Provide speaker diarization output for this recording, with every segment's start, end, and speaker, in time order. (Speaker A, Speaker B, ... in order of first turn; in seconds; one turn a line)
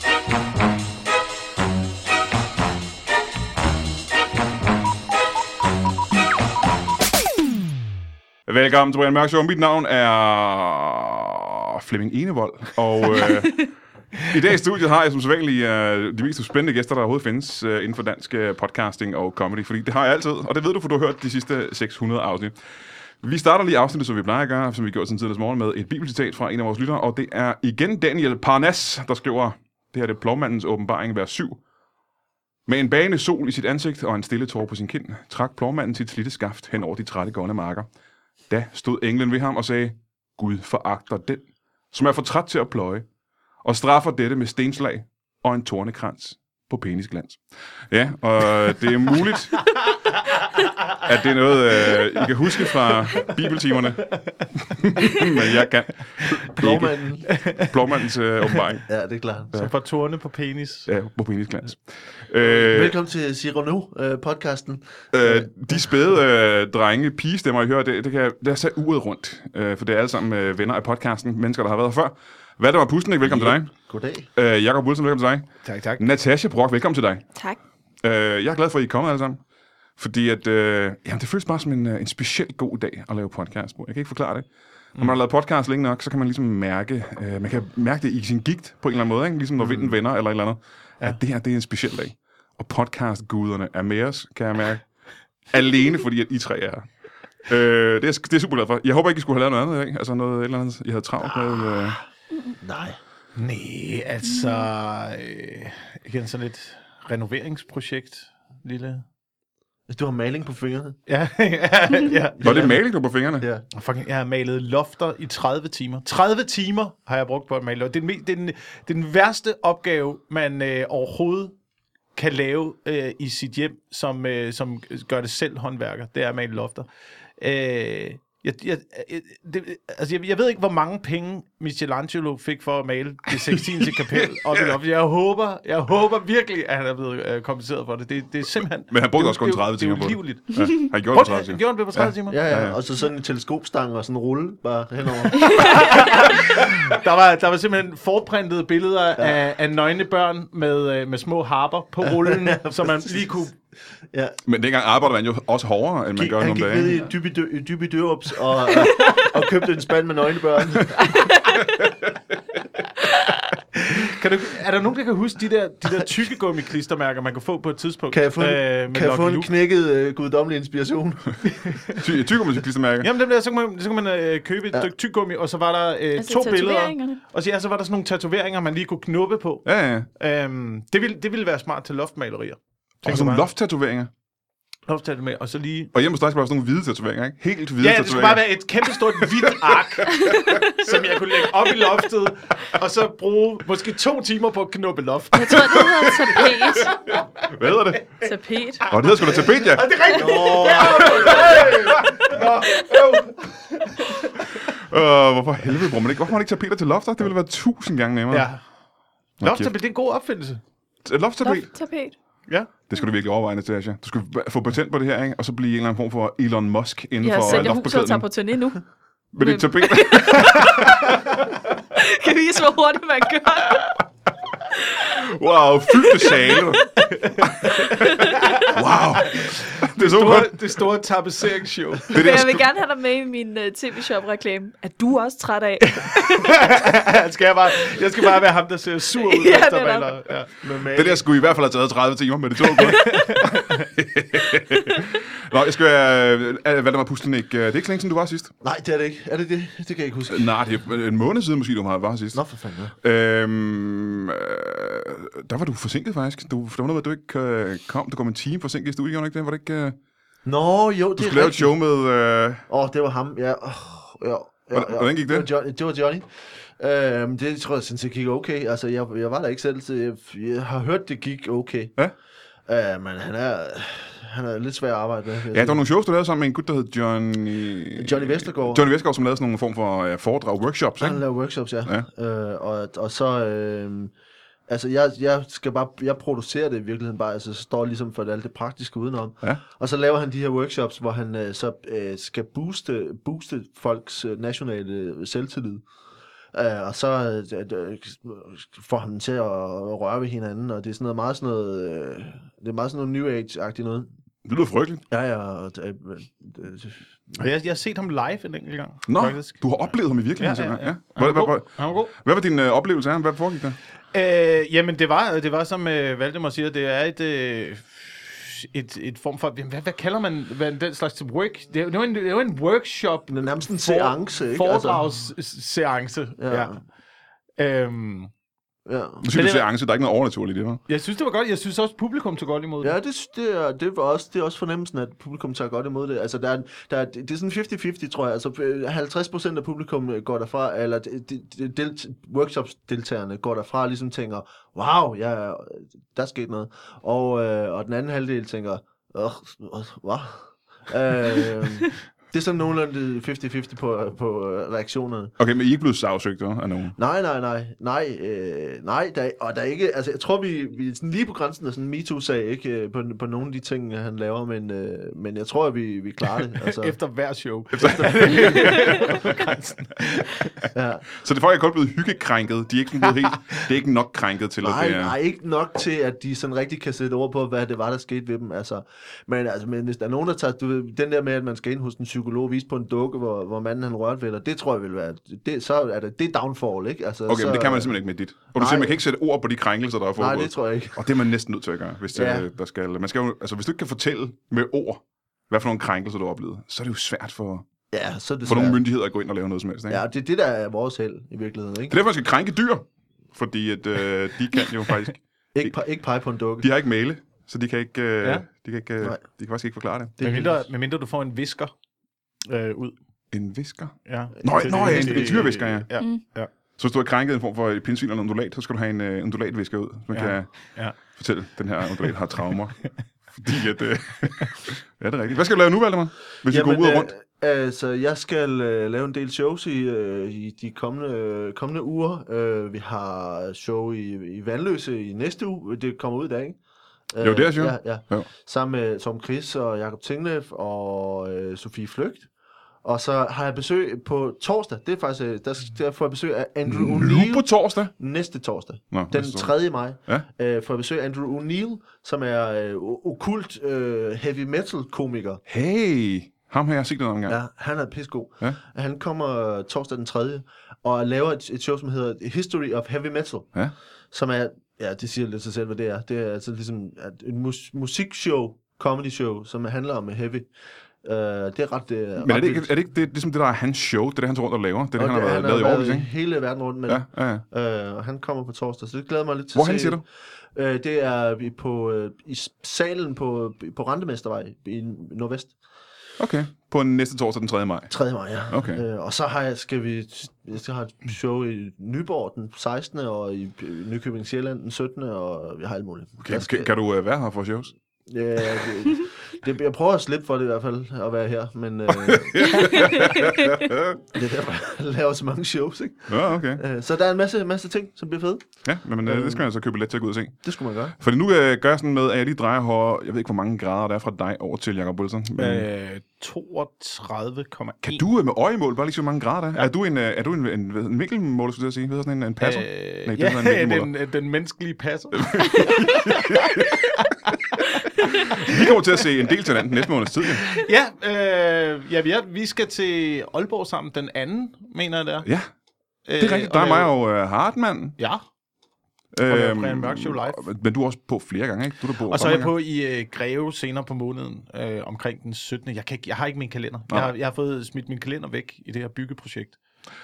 Speaker A: 8.4-22.6
Speaker A: 23.2-31.6
Speaker A: 32.6-37.9
Speaker A: 38.5-43.0
Speaker A: 43.6-49.6
Speaker A: 51.0-58.9
Speaker B: 54.1-55.3
Speaker C: 56.5-57.3
Speaker B: 57.4-57.7
Speaker C: 58.9-59.5
Speaker B: 59.5-60.9
Speaker A: 60.9-63.0
Speaker C: 62.4-65.9
Speaker A: 65.1-73.7
Speaker C: 73.7-74.3
Speaker A: 74.3-77.3
Speaker B: 75.6-76.0
Speaker A: 78.0-79.4
Speaker A: 80.0-94.9
Speaker B: 89.6-89.9
Speaker A: 95.5-102.0
Speaker C: 101.2-102.0
Speaker C: 102.6-103.0
Speaker B: 103.3-109.0
Speaker D: 104.2-104.7
Speaker C: 109.9-111.0
Speaker B: 111.1-112.7
Speaker C: 112.4-112.8
Speaker A: 112.4-113.5
Speaker C: 113.4-113.6
Speaker B: 113.7-121.5
Speaker B: 122.1-126.9
Speaker B: 127.4-142.5
Speaker A: 133.5-134.7
Speaker A: 138.9-142.8
Speaker C: 142.3-146.1
Speaker D: 145.4-145.7
Speaker B: 145.4-153.5
Speaker C: 152.0-153.4
Speaker C: 154.1-154.4
Speaker A: 154.4-157.0
Speaker C: 156.2-161.3
Speaker D: 158.8-159.1
Speaker D: 161.3-161.6
Speaker A: 161.8-162.1
Speaker B: 163.7-169.5
Speaker C: 168.1-171.7
Speaker B: 171.5-172.0
Speaker A: 172.0-173.1
Speaker B: 173.0-183.4
Speaker D: 176.2-177.2
Speaker A: 179.6-180.1
Speaker A: 183.0-184.1
Speaker B: 184.9-185.9
Speaker A: 185.9-191.1
Speaker B: 187.8-197.2
Speaker D: 190.2-190.6
Speaker D: 195.3-197.0
Speaker A: 195.5-198.1
Speaker D: 198.2-198.9
Speaker B: 198.2-204.6
Speaker A: 198.8-200.0
Speaker C: 200.1-201.8
Speaker A: 201.2-202.4
Speaker A: 204.7-208.5
Speaker B: 208.3-208.6
Speaker B: 209.4-210.6
Speaker A: 209.4-209.7
Speaker A: 211.0-211.7
Speaker D: 211.4-212.2
Speaker A: 212.9-218.3
Speaker D: 217.2-218.8
Speaker A: 219.3-220.9
Speaker D: 219.4-221.1
Speaker D: 221.9-224.0
Speaker A: 225.0-226.9
Speaker D: 226.1-226.6
Speaker B: 227.0-228.7
Speaker A: 227.4-230.6
Speaker B: 229.3-232.4
Speaker A: 232.1-232.7
Speaker D: 232.1-236.7
Speaker B: 235.9-240.5
Speaker D: 239.2-240.2
Speaker C: 240.6-241.2
Speaker A: 240.9-248.5
Speaker B: 242.8-243.9
Speaker C: 248.6-250.5
Speaker A: 250.3-252.4
Speaker C: 252.3-252.9
Speaker A: 253.0-260.0
Speaker C: 260.4-261.7
Speaker A: 261.2-262.6
Speaker C: 262.7-271.9
Speaker A: 264.7-265.5
Speaker C: 272.6-275.8
Speaker A: 275.5-281.2
Speaker C: 277.9-278.9
Speaker C: 281.0-284.1
Speaker C: 284.7-295.8
Speaker C: 296.5-304.1
Speaker A: 304.4-305.0
Speaker C: 305.1-307.0
Speaker B: 307.3-309.8
Speaker A: 309.1-313.8
Speaker B: 310.4-312.1
Speaker B: 314.1-326.8
Speaker C: 323.3-325.0
Speaker C: 326.4-326.8
Speaker B: 327.6-328.3
Speaker C: 328.9-329.2
Speaker A: 329.2-330.8
Speaker B: 329.3-329.7
Speaker B: 330.9-332.9
Speaker C: 332.8-355.3
Speaker A: 355.4-356.9
Speaker C: 357.0-366.9
Speaker B: 366.4-370.6
Speaker A: 367.7-368.6
Speaker C: 368.2-368.6
Speaker C: 370.7-371.0
Speaker A: 371.2-375.1
Speaker C: 374.6-388.0
Speaker A: 387.3-397.7
Speaker C: 388.5-389.0
Speaker C: 390.2-391.0
Speaker C: 392.1-392.5
Speaker C: 397.9-398.8
Speaker A: 398.4-400.0
Speaker C: 399.9-401.9
Speaker A: 401.9-405.8
Speaker C: 405.5-406.7
Speaker A: 406.6-410.1
Speaker C: 410.2-410.6
Speaker B: 410.2-411.7
Speaker B: 412.4-412.9
Speaker A: 413.3-415.9
Speaker B: 414.0-416.5
Speaker C: 414.4-415.5
Speaker A: 416.8-427.1
Speaker B: 420.1-420.9
Speaker C: 426.4-436.6
Speaker C: 437.1-442.3
Speaker A: 437.2-438.3
Speaker C: 442.8-455.4
Speaker A: 446.7-447.9
Speaker A: 448.9-450.2
Speaker A: 455.5-457.4
Speaker C: 457.3-463.5
Speaker C: 464.1-470.5
Speaker C: 471.0-472.7
Speaker A: 472.2-476.1
Speaker C: 475.0-485.5
Speaker A: 476.9-477.4
Speaker A: 479.5-480.0
Speaker A: 486.2-487.9
Speaker C: 487.9-496.7
Speaker A: 488.5-488.8
Speaker A: 496.2-497.7
Speaker C: 498.1-503.2
Speaker A: 501.9-504.0
Speaker D: 502.6-503.0
Speaker C: 504.1-509.4
Speaker A: 506.1-506.6
Speaker A: 508.6-510.4
Speaker C: 510.4-510.9
Speaker A: 511.0-515.7
Speaker B: 515.4-518.0
Speaker A: 517.8-523.9
Speaker B: 522.4-526.9
Speaker A: 525.2-527.0
Speaker A: 527.6-530.5
Speaker B: 530.5-535.3
Speaker A: 535.2-535.5
Speaker B: 536.0-536.9
Speaker A: 536.2-538.0
Speaker A: 539.1-542.5
Speaker B: 539.3-540.5
Speaker B: 542.1-549.6